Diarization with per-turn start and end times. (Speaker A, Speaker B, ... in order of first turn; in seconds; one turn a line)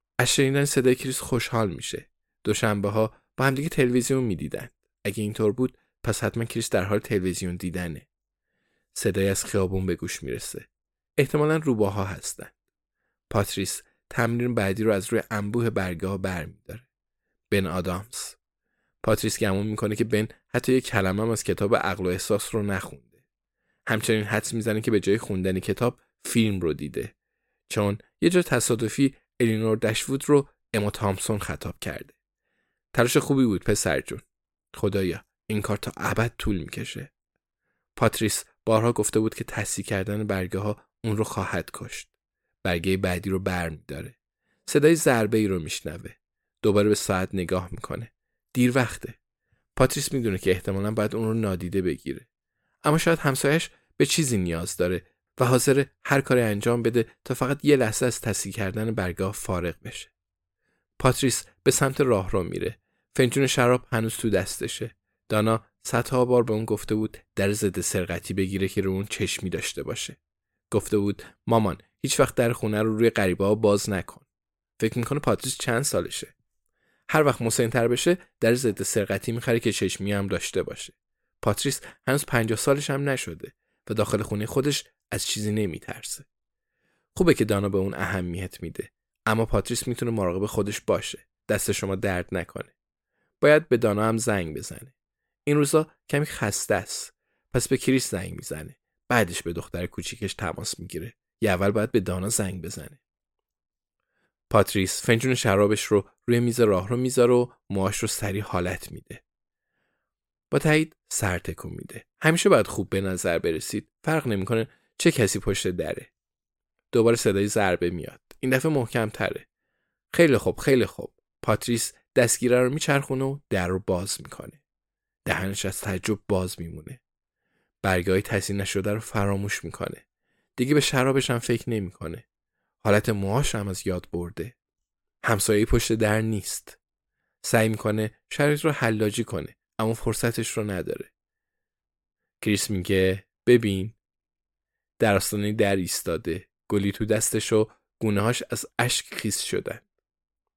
Speaker A: 0.2-8.1
Speaker A: 8.9-10.7
Speaker A: 11.2-12.5
Speaker A: 13.3-16.9
Speaker A: 17.5-18.4
Speaker A: 19.0-23.1
Speaker A: 23.9-27.1
Speaker A: 27.7-32.1
Speaker A: 32.9-37.1
Speaker A: 38.0-42.1
Speaker A: 42.6-44.2
Speaker A: 44.7-49.2
Speaker A: 49.8-52.3
Speaker A: 52.8-60.1
Speaker A: 61.0-70.2
Speaker A: 70.7-74.2
Speaker A: 74.8-76.3
Speaker A: 77.1-86.2
Speaker A: 87.2-92.7
Speaker A: 93.4-94.9
Speaker A: 95.5-103.0
Speaker A: 104.5-109.2
Speaker A: 110.5-116.1
Speaker A: 116.9-119.5
Speaker A: 120.1-124.6
Speaker A: 125.2-127.0
Speaker A: 127.8-130.0
Speaker A: 130.6-132.2
Speaker A: 132.8-134.5
Speaker A: 135.2-136.8
Speaker A: 137.4-141.1
Speaker A: 142.4-143.9
Speaker A: 145.0-149.8